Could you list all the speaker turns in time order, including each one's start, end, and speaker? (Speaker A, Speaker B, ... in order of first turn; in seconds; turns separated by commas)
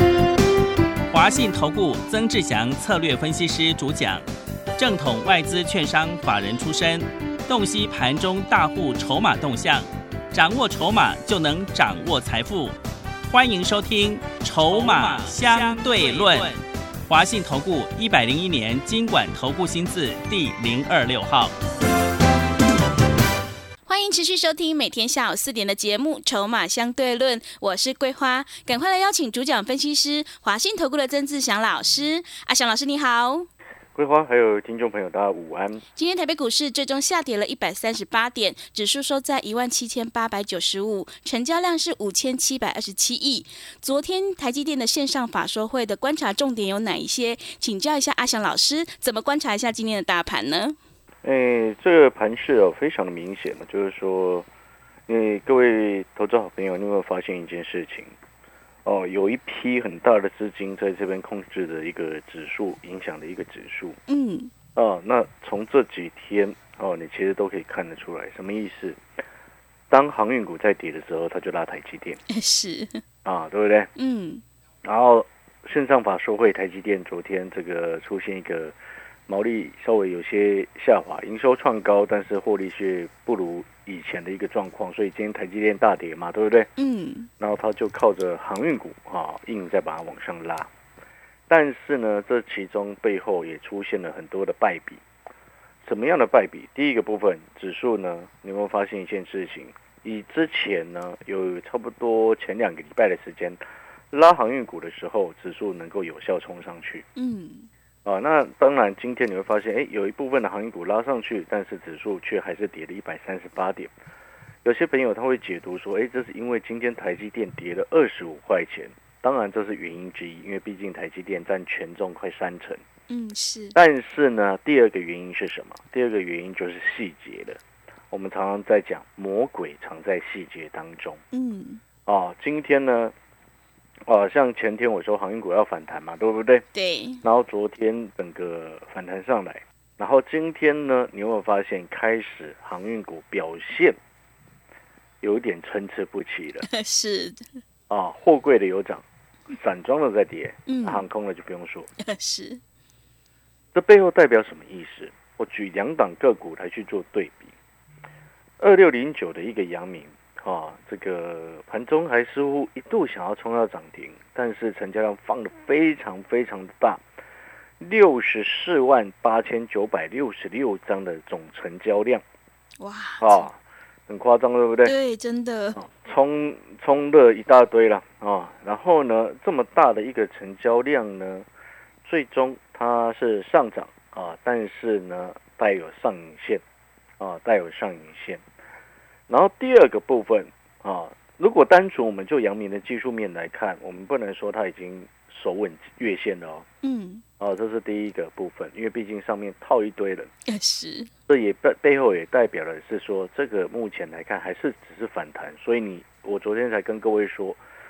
Speaker A: 1.1-4.2, Speaker A: 4.8-12.7, Speaker A: 13.3-21.5, Speaker B: 23.9-33.5, Speaker C: 33.9-35.8, Speaker B: 36.0-50.8, Speaker C: 51.2-54.5, Speaker C: 55.1-58.1, Speaker C: 58.8-64.0, Speaker B: 64.1-64.5, Speaker C: 64.7-69.0, Speaker C: 69.9-72.2, Speaker B: 72.3-73.0, Speaker C: 73.2-73.9, Speaker B: 74.0-74.4, Speaker C: 74.8-78.7, Speaker C: 79.3-86.7, Speaker B: 86.8-87.3, Speaker C: 87.4-90.7, Speaker C: 91.5-95.0, Speaker C: 95.8-103.6, Speaker C: 104.1-107.0, Speaker B: 107.1-107.7, Speaker C: 108.0-113.9, Speaker C: 114.6-122.8, Speaker B: 123.1-123.8, Speaker C: 123.7-127.6, Speaker C: 128.1-131.2, Speaker B: 131.3-131.8, Speaker C: 132.1-133.1, Speaker C: 134.1-136.6, Speaker B: 136.7-137.2, Speaker C: 137.2-143.9, Speaker C: 145.2-146.7, Speaker B: 146.7-147.5, Speaker C: 147.9-151.9, Speaker B: 150.7-151.0, Speaker B: 152.0-152.6, Speaker C: 153.7-157.5, Speaker C: 158.6-167.0, Speaker C: 167.8-172.2, Speaker B: 172.8-173.5, Speaker C: 173.2-173.6, Speaker C: 174.1-174.9, Speaker B: 174.8-175.8, Speaker C: 175.8-181.4, Speaker C: 182.0-186.6, Speaker C: 187.2-188.4, Speaker C: 189.3-196.7, Speaker B: 196.8-197.2, Speaker C: 197.4-200.3, Speaker B: 200.5-201.1, Speaker C: 201.3-207.6